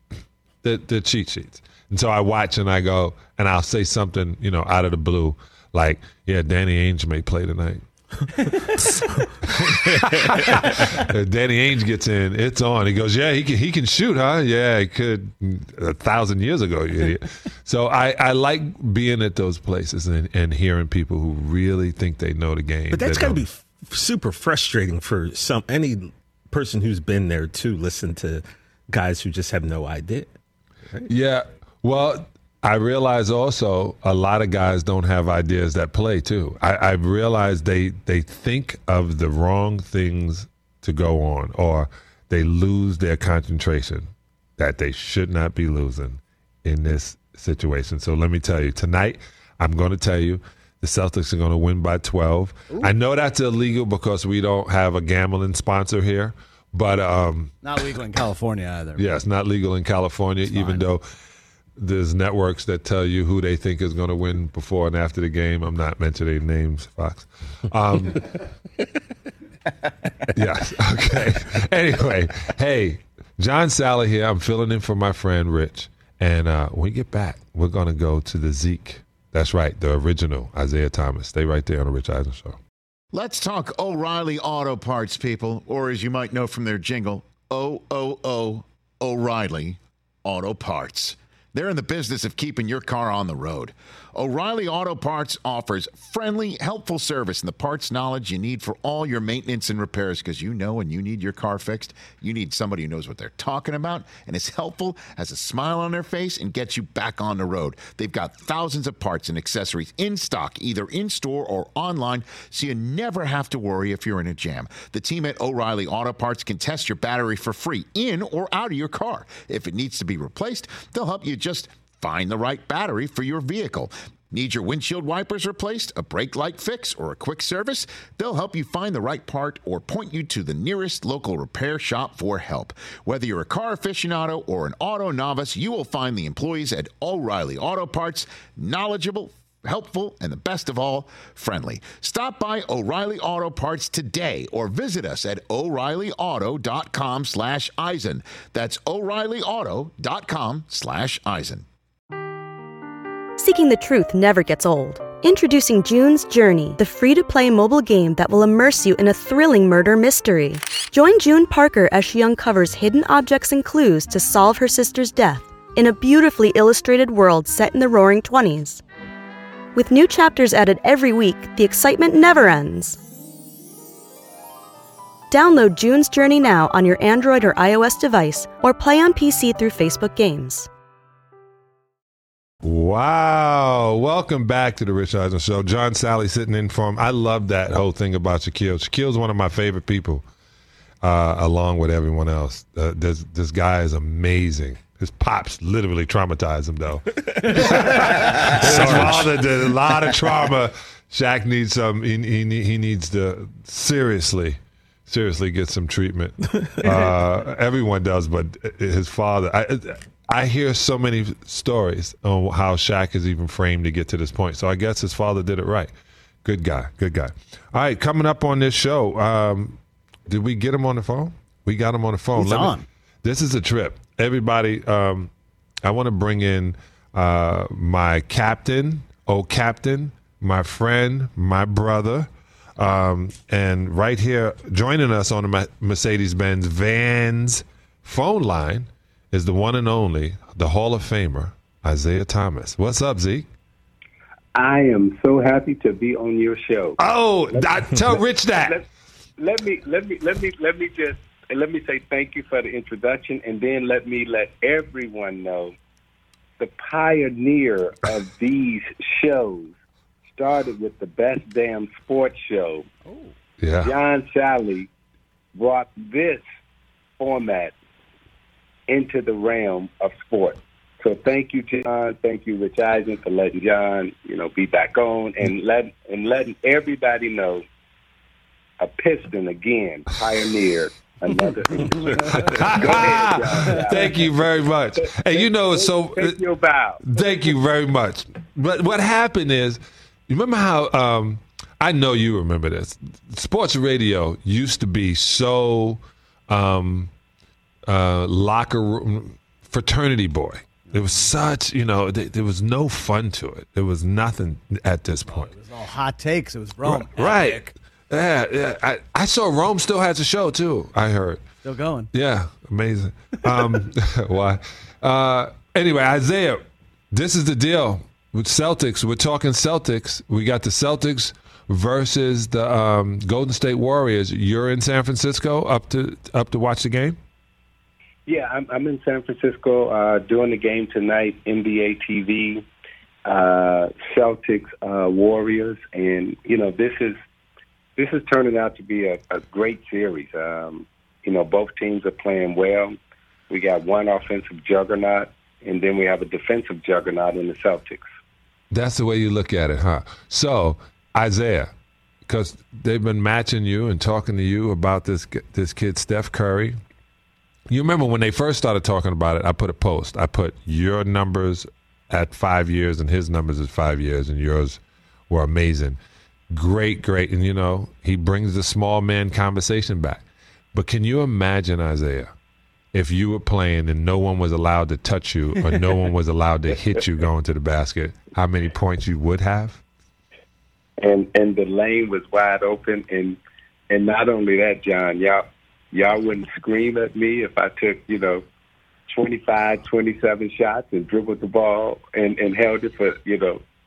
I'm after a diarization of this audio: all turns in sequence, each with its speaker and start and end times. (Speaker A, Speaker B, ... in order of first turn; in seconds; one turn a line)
Speaker A: 0.6-7.8
Speaker A: 9.4-23.4
Speaker B: 9.9-10.7
Speaker B: 22.9-30.3
Speaker A: 31.1-57.5
Speaker C: 57.6-59.0
Speaker A: 59.0-61.0
Speaker C: 60.5-60.8
Speaker A: 61.8-68.3
Speaker A: 70.3-82.6
Speaker D: 83.1-151.7
Speaker E: 153.4-168.8
Speaker E: 169.8-173.0
Speaker E: 175.3-180.7
Speaker A: 182.6-190.2
Speaker A: 191.0-215.9
Speaker C: 197.6-198.3
Speaker B: 198.3-199.3
Speaker A: 216.4-225.3
Speaker C: 222.4-222.9
Speaker A: 225.8-243.5
Speaker F: 244.6-247.0
Speaker A: 247.0-248.8
Speaker F: 247.5-248.8
Speaker F: 249.4-255.7
Speaker F: 256.6-259.7
Speaker F: 260.3-262.9
Speaker A: 263.6-263.9
Speaker F: 263.8-264.9
Speaker F: 265.6-266.4
Speaker F: 267.2-267.7
Speaker F: 268.9-277.6
Speaker F: 278.8-284.3
Speaker A: 282.3-286.4
Speaker F: 285.1-287.0
Speaker A: 287.0-297.1
Speaker A: 297.9-305.5
Speaker C: 300.9-301.3
Speaker C: 305.3-307.7
Speaker A: 306.8-311.4
Speaker C: 311.6-312.1
Speaker A: 312.1-327.2
Speaker F: 328.3-332.6
Speaker F: 333.2-337.2
Speaker F: 338.0-343.0
Speaker F: 343.5-348.1
Speaker A: 348.7-351.7
Speaker A: 352.3-356.8
Speaker A: 357.7-366.0
Speaker A: 366.5-372.3
Speaker A: 372.9-379.8
Speaker F: 381.0-383.4
Speaker F: 383.9-388.4
Speaker F: 389.1-393.6